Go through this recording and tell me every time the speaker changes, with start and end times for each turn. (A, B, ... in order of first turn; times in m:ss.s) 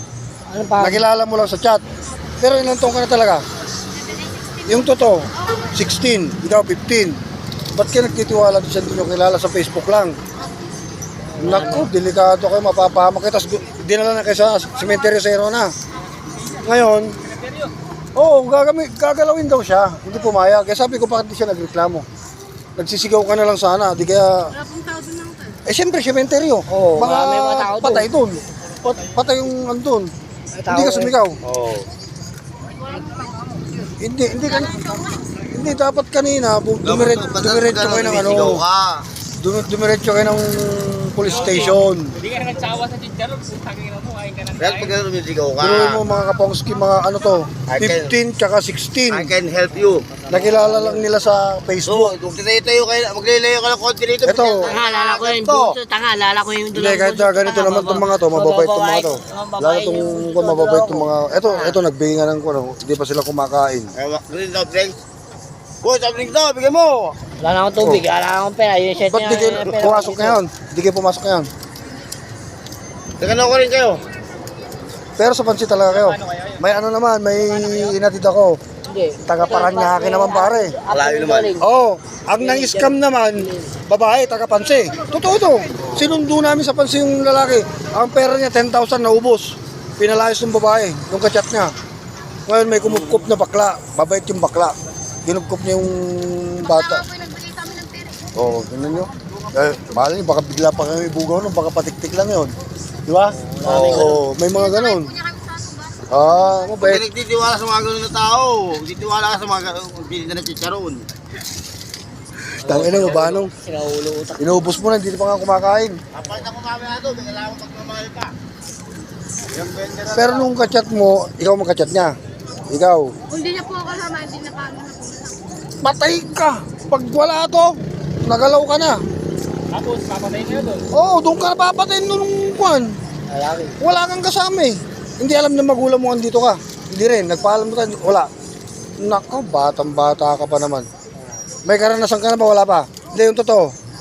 0:00.5-0:01.0 A
0:00.8-0:01.8 B
0:02.4-0:03.4 B
0:04.0-0:04.7 C
0:04.6-0:07.2 B
0:07.7-0:10.2 B
0:11.4-0:11.9 A
0:11.4-0:15.7 B
0:16.6-0:17.1 B
0:17.3-0:17.7 D
0:18.2-0:22.0 B
0:22.8-0:24.5 B
0:24.6-0:25.6 C
0:25.7-0:30.1 B
0:26.7-0:28.1 A
0:30.5-0:31.2 A
0:30.7-0:31.4 B
0:31.5-0:31.8 E
0:32.8-0:33.4 C
0:34.0-0:38.6 B
0:34.6-0:35.2 C
0:36.8-0:39.0 E
0:39.4-0:42.2 B
0:41.3-0:45.0 D
0:44.6-0:46.0 E
0:45.6-0:49.3 B
0:47.7-0:48.2 E
0:49.1-0:50.1 E
0:49.7-0:51.1 A
0:50.3-0:52.1 B
0:51.8-0:55.8 E
0:54.2-0:54.7 B
0:54.6-1:01.8 A
0:56.7-1:03.9 B
1:04.0-1:05.0 E
1:05.8-1:07.2 E
1:07.4-1:10.4 A
1:07.8-1:08.0 B
1:09.0-1:11.5 B
1:13.2-1:14.0 E
1:15.2-1:18.6 B
1:15.9-1:16.6 D
1:17.5-1:18.0 D
1:18.9-1:21.7 A
1:19.3-1:20.8 B
1:20.9-1:21.5 E
1:21.6-1:31.7 B
1:22.4-1:23.7 A
1:25.8-1:26.1 E
1:32.5-1:34.7 B
1:32.8-1:33.3 E
1:35.3-1:37.0 B
1:36.7-1:38.3 C
1:38.4-1:42.5 B
1:43.1-1:45.1 B
1:43.2-1:44.2 A
1:43.6-1:44.2 E
1:44.4-1:46.7 C
1:46.1-1:47.0 B
1:46.8-1:51.1 E
1:52.6-1:54.6 A
1:52.6-1:53.5 B
1:54.4-1:56.0 B
1:56.1-1:58.3 E
1:59.5-2:00.6 E
2:00.1-2:02.1 B
2:02.7-2:03.1 B
2:03.3-2:05.6 C
2:05.8-2:09.0 B
2:09.7-2:10.8 D
2:10.9-2:12.9 B
2:13.3-2:13.8 A
2:13.8-2:18.3 B
2:19.0-2:20.9 B
2:21.7-2:23.7 B